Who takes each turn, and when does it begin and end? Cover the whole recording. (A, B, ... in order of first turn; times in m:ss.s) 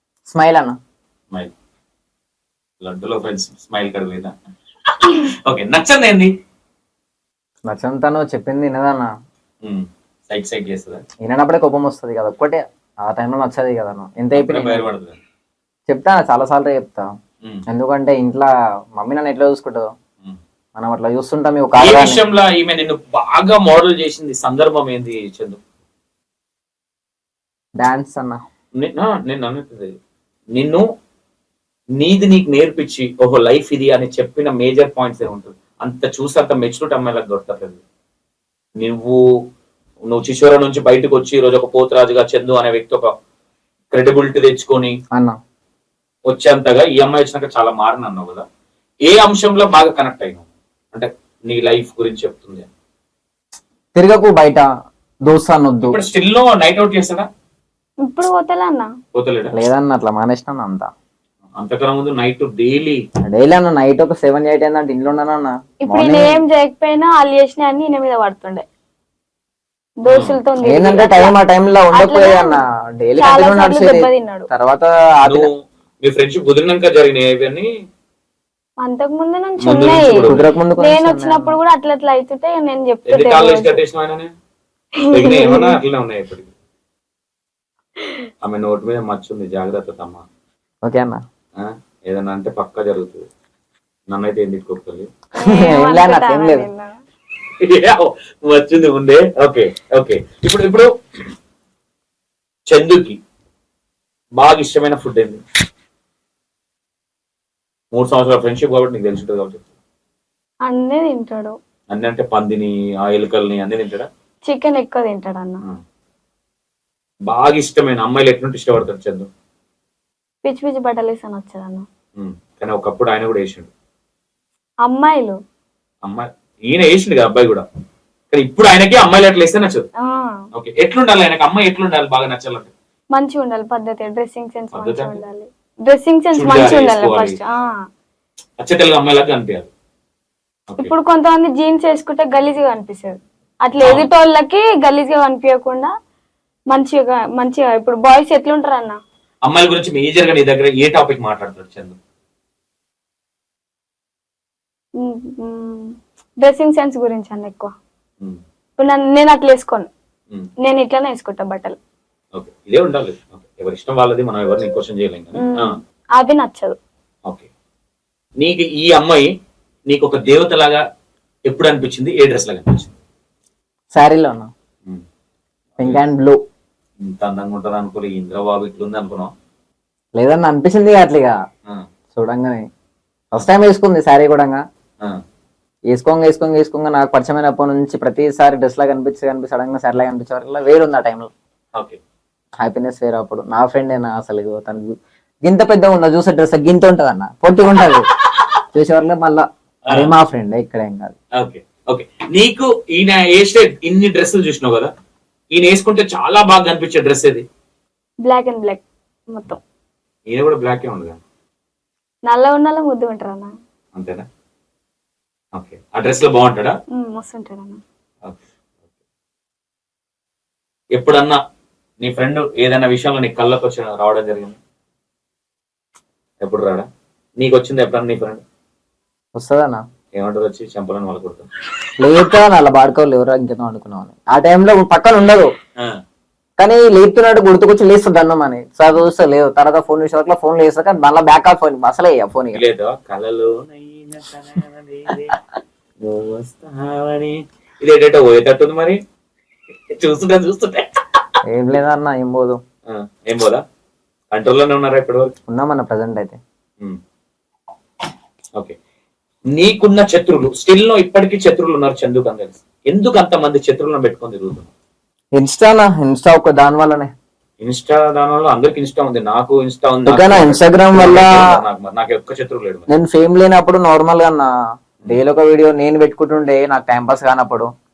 0:00.3-0:00.8 A
0:02.8-0:04.3 B
0:05.0-0:06.3 B
0:07.7-0:09.1 A
0:09.6-0:11.0 B
0:11.2-0:14.8 A
0:14.3-0:15.2 B
0:15.9-0:17.1 A
0:17.7-0:19.9 A
0:20.8-0:22.2 A
0:21.8-0:25.6 B
0:27.8-0:28.4 A
0:28.8-0:29.9 B
0:30.6-0:30.8 B
0:32.0-0:37.8 B
0:38.8-0:39.2 B
0:40.1-0:43.1 B
0:43.9-0:45.0 B
0:46.3-0:48.4 B
0:49.0-0:52.7 B
0:54.0-0:54.7 A
0:55.3-0:56.0 A
0:55.8-0:57.3 B
0:58.0-0:58.9 C
0:59.1-0:59.6 B
0:59.5-1:00.9 A
1:01.6-1:03.0 B
1:03.3-1:06.4 A
1:05.9-1:08.6 C
1:10.0-1:11.3 C
1:10.1-1:11.0 B
1:10.6-1:15.5 A
1:11.9-1:12.6 C
1:13.2-1:14.5 C
1:15.2-1:17.7 B
1:18.8-1:23.8 C
1:19.6-1:20.5 B
1:20.3-1:21.6 A
1:23.1-1:24.3 B
1:25.0-1:25.8 C
1:25.1-1:26.5 B
1:28.0-1:28.2 C
1:28.4-1:30.2 B
1:30.8-1:31.2 A
1:31.6-1:33.2 B
1:34.1-1:35.1 B
1:35.4-1:37.0 C
1:35.4-1:36.7 A
1:37.6-1:40.9 B
1:42.7-1:43.2 B
1:44.4-1:45.4 B
1:47.9-1:49.7 B
1:50.7-1:51.6 C
1:51.9-1:54.1 B
1:54.5-1:55.6 C
1:57.3-1:59.3 B
2:00.4-2:01.9 C
2:02.2-2:03.7 B
2:04.9-2:05.4 C
2:06.0-2:07.6 B
2:08.3-2:09.9 B
2:10.0-2:10.4 C
2:10.5-2:12.7 B
2:13.2-2:17.7 C
2:14.7-2:15.2 B
2:16.3-2:17.4 B
2:18.6-2:19.7 B
2:20.8-2:25.9 C
2:23.8-2:24.1 B
2:26.7-2:29.0 C
2:29.5-2:32.0 B
2:35.0-2:37.7 C
2:38.8-2:39.9 C
2:40.6-2:41.8 C
2:42.4-2:45.7 B
2:45.4-2:46.8 C
2:48.4-2:49.3 B
2:49.9-2:50.8 B
2:51.5-2:52.9 B
2:53.9-2:54.5 A
2:55.8-2:56.4 A
2:57.0-2:59.3 B
3:00.2-3:01.3 A
3:02.1-3:02.7 A
3:03.3-3:04.6 A
3:05.9-3:11.3 A
3:12.6-3:18.0 A
3:18.7-3:21.2 A
3:19.9-3:20.1 B
3:21.4-3:24.9 B
3:25.5-3:27.4 B
3:28.2-3:29.6 C
3:30.3-3:31.2 B
3:32.3-3:33.5 C
3:34.0-3:34.2 B
3:35.6-3:36.8 B
3:37.0-3:37.8 C
3:41.0-3:41.4 B
3:42.0-3:44.6 B
3:46.4-3:46.9 B
3:47.4-3:48.4 B
3:49.4-3:49.8 A
3:50.2-3:51.5 B
3:52.0-3:55.5 A
3:56.6-4:02.6 A
4:02.5-4:05.4 B
4:06.0-4:09.0 B
4:09.9-4:11.3 B
4:11.5-4:12.6 A
4:12.9-4:13.6 B
4:14.3-4:15.3 B
4:15.5-4:16.4 A
4:19.5-4:24.7 B
4:25.4-4:27.1 A
4:27.6-4:32.9 B
4:30.1-4:31.5 A
4:32.9-4:34.5 A
4:35.1-4:37.7 A